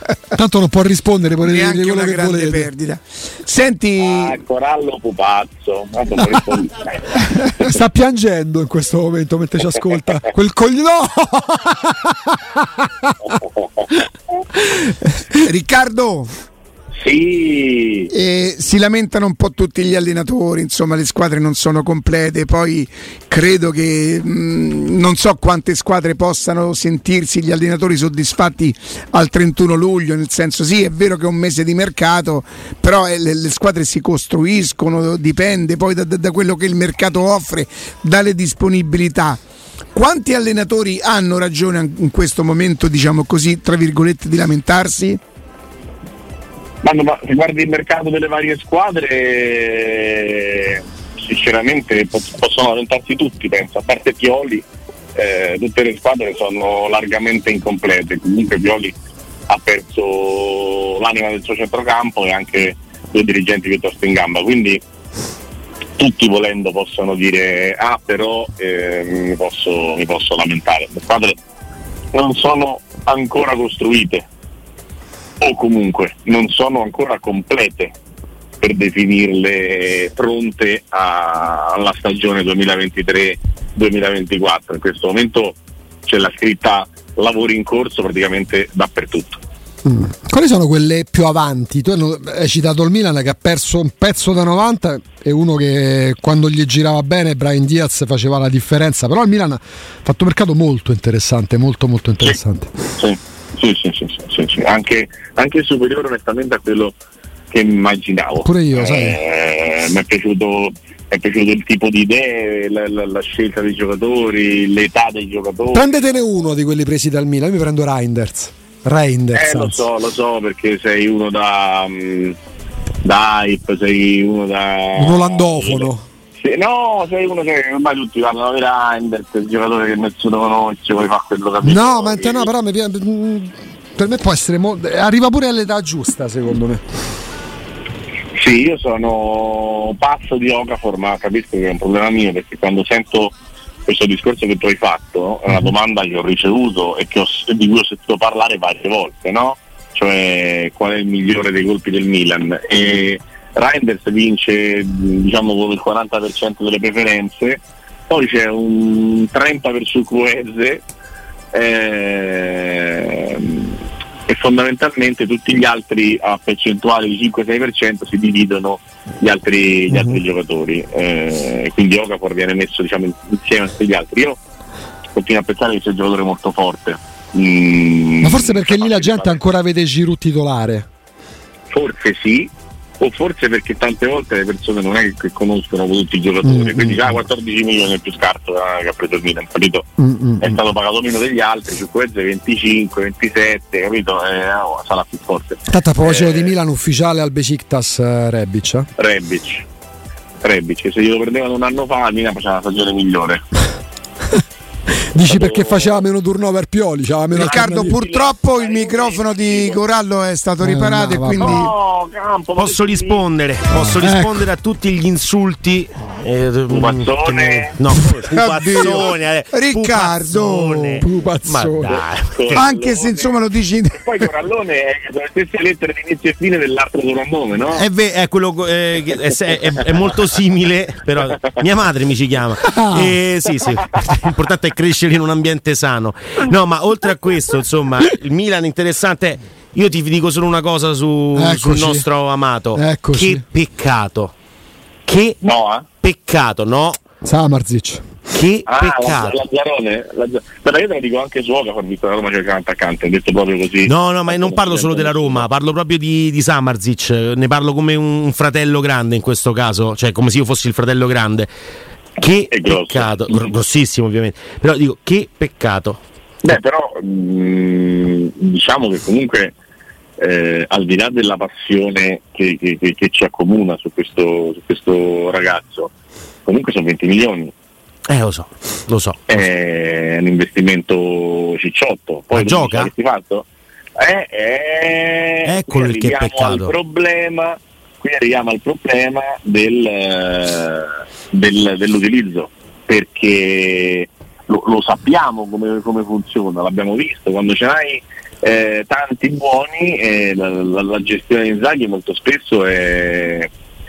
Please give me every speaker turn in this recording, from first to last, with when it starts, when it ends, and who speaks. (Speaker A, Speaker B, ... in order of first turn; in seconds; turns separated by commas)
Speaker A: 0.3-2.7, Speaker B: 1.4-4.4, Speaker C: 4.0-7.2, Speaker B: 7.3-7.7, Speaker A: 7.7-15.4, Speaker B: 15.4-16.3, Speaker C: 17.0-18.1, Speaker B: 18.1-39.4, Speaker B: 39.9-45.2, Speaker C: 46.8-59.0, Speaker C: 59.5-64.8, Speaker C: 66.0-71.4, Speaker C: 72.1-74.3, Speaker C: 75.4-78.0, Speaker C: 78.6-89.4, Speaker A: 89.8-102.7, Speaker C: 103.0-107.0, Speaker C: 107.5-115.9, Speaker A: 108.4-109.2, Speaker A: 115.7-119.9, Speaker C: 119.3-122.4, Speaker C: 123.0-132.5, Speaker A: 125.0-126.1, Speaker A: 131.6-136.8, Speaker C: 138.3-143.3, Speaker C: 143.9-160.8, Speaker C: 161.5-174.4, Speaker A: 169.9-170.2, Speaker C: 175.2-179.4, Speaker A: 178.2-180.9, Speaker C: 181.7-196.5, Speaker A: 186.4-187.2, Speaker A: 190.0-190.6, Speaker A: 195.7-198.9, Speaker C: 199.0-199.7, Speaker C: 200.4-203.4, Speaker A: 204.4-208.0, Speaker C: 205.2-206.0, Speaker C: 207.3-209.8, Speaker B: 207.3-211.7, Speaker A: 210.6-211.7, Speaker C: 211.4-213.2, Speaker D: 212.6-222.6, Speaker A: 213.7-214.5, Speaker C: 216.7-217.8, Speaker B: 218.1-221.1, Speaker A: 221.0-222.0, Speaker C: 221.9-223.3, Speaker B: 222.5-224.3, Speaker C: 223.9-227.9, Speaker D: 227.8-244.3, Speaker A: 232.6-233.2, Speaker C: 233.5-234.2, Speaker A: 241.3-242.1, Speaker A: 242.8-243.4, Speaker D: 245.1-245.4, Speaker C: 245.4-245.9, Speaker D: 246.0-247.0, Speaker A: 247.2-248.2, Speaker D: 248.3-249.4, Speaker C: 248.7-255.5, Speaker D: 253.9-261.5, Speaker D: 262.2-266.0, Speaker C: 262.5-263.5, Speaker C: 266.4-269.5, Speaker C: 270.2-275.9, Speaker C: 276.5-277.5, Speaker D: 278.1-279.2, Speaker C: 279.3-283.5, Speaker D: 282.3-282.9, Speaker C: 284.0-303.5, Speaker D: 285.4-286.7